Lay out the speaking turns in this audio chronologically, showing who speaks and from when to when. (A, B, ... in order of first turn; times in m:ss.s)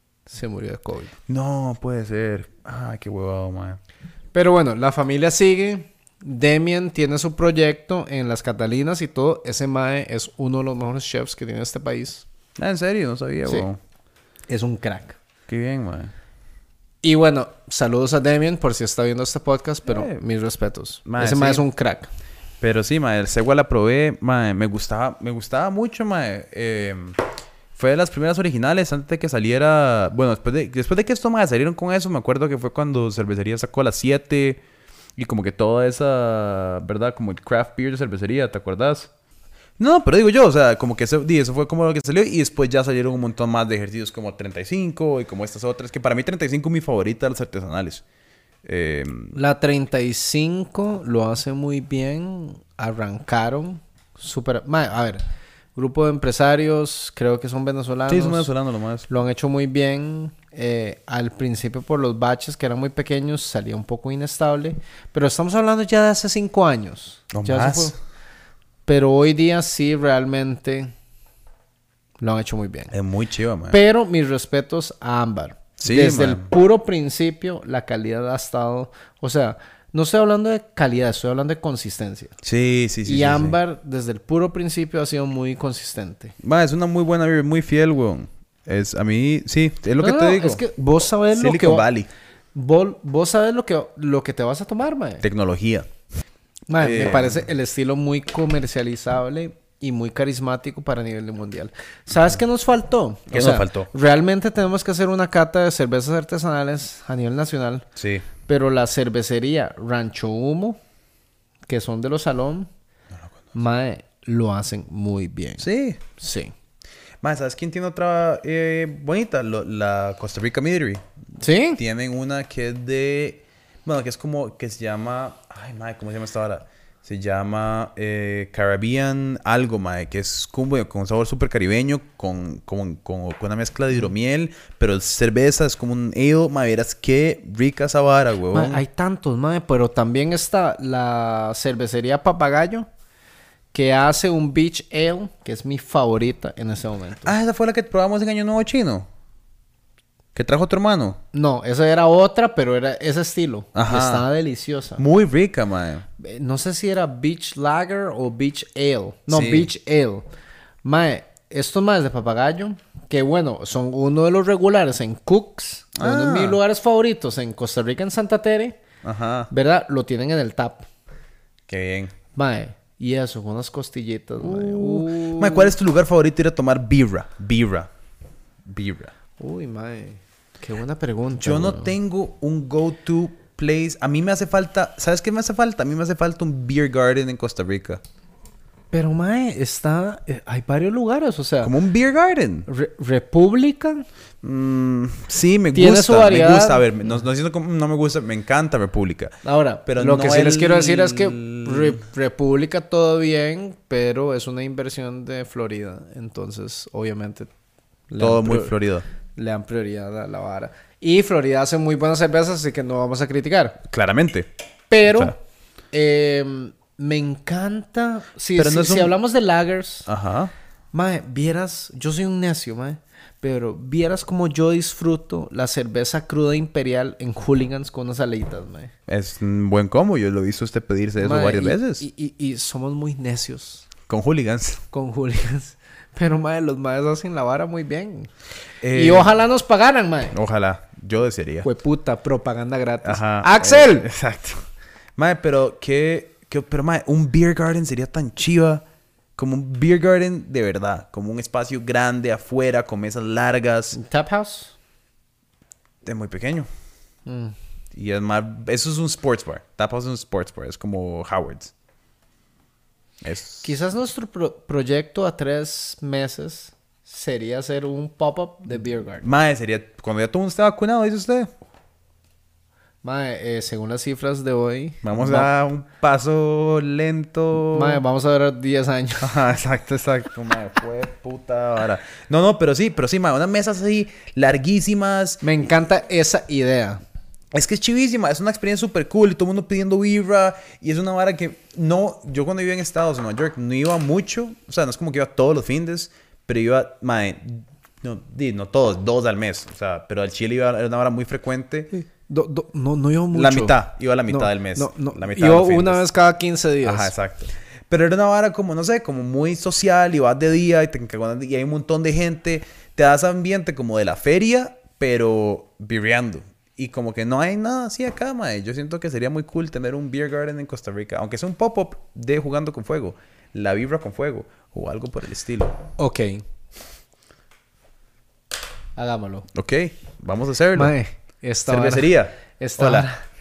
0:00.3-0:01.1 A
0:01.3-0:03.8 B
0:04.3-0:12.2 A
0:12.6-0:13.8 B
0:14.5-0:15.2 A
0:15.5-0:16.1 B
0:17.0-0:22.1 A
0:19.9-0:20.2 B
0:21.1-0:21.6 B
0:22.6-0:27.2 B
0:27.7-0:34.6 B
0:35.2-0:39.1 B
0:39.8-0:48.0 B
0:48.6-0:49.4 B
0:49.3-0:55.2 A
0:55.8-0:58.5 A
0:58.1-0:59.1 B
0:59.1-1:08.0 A
1:07.3-1:08.0 B
1:08.9-1:10.9 A
1:12.2-1:12.9 A
1:12.9-1:13.8 B
1:13.7-1:22.4 A
1:15.8-1:16.5 B
1:22.4-1:23.6 B
1:23.0-1:26.4 A
1:26.4-1:30.6 B
1:30.0-1:31.9 A
1:31.3-1:32.1 B
1:32.5-1:35.2 A
1:35.2-1:35.9 B
1:36.7-1:47.9 A
1:36.8-1:37.4 B
1:43.3-1:43.9 B
1:48.0-1:48.3 B
1:48.5-1:50.8 A
1:51.7-1:52.7 A
1:53.6-1:56.5 A
1:55.6-1:56.0 B
1:57.2-2:01.0 B
2:01.4-2:01.8 A
2:01.8-2:18.8 B
2:18.5-2:22.9 A
2:23.7-2:27.3 A
2:27.2-2:29.1 B
2:30.4-2:31.2 B
2:31.3-2:35.0 A
2:33.8-2:34.3 B
2:35.0-2:36.1 B
2:36.2-2:40.3 A
2:39.3-2:39.7 B
2:40.8-2:48.8 A
2:46.0-2:46.6 B
2:49.0-2:49.5 B
2:49.5-2:50.9 A
2:51.7-2:52.2 B
2:52.3-2:55.7 A
2:54.4-2:57.9 B
2:58.6-2:59.1 B
2:59.4-3:01.9 A
3:01.4-3:08.0 B
3:08.9-3:11.7 A
3:11.6-3:12.7 B
3:12.7-3:14.0 A
3:14.4-3:22.0 B
3:15.7-3:17.2 A
3:19.4-3:27.5 A
3:28.1-3:28.8 A
3:28.2-3:29.0 B
3:29.4-3:33.8 A
3:33.9-3:34.5 B
3:34.9-3:35.4 A
3:35.0-3:35.4 B
3:35.9-3:40.1 A
3:38.6-3:39.2 B
3:40.1-3:40.5 B
3:40.9-3:48.9 A
3:49.1-3:52.0 B
3:51.2-3:53.9 A
3:54.1-3:54.8 B
3:54.9-3:58.3 A
3:58.8-3:59.4 B
3:58.9-4:00.4 A
4:00.3-4:01.7 B
4:01.6-4:04.1 A
4:03.0-4:04.6 B
4:05.2-4:08.8 B
4:09.4-4:14.0 B
4:13.9-4:14.8 A
4:16.0-4:16.7 B
4:17.3-4:17.6 A
4:17.9-4:21.7 B
4:23.2-4:23.8 B
4:23.6-4:29.3 A
4:29.2-4:31.5 B
4:33.0-4:35.5 A
4:35.0-4:38.0 B
4:37.7-4:39.4 A
4:39.2-4:45.4 B
4:45.4-4:47.0 A
4:47.5-5:01.9 B
5:01.9-5:03.8 A
5:03.3-5:06.0 B
5:04.3-5:07.1 A
5:06.8-5:25.8 B
5:26.0-5:26.4 A
5:29.0-5:29.5 A
5:29.5-5:30.9 B
5:30.8-5:33.2 A
5:31.7-5:33.1 B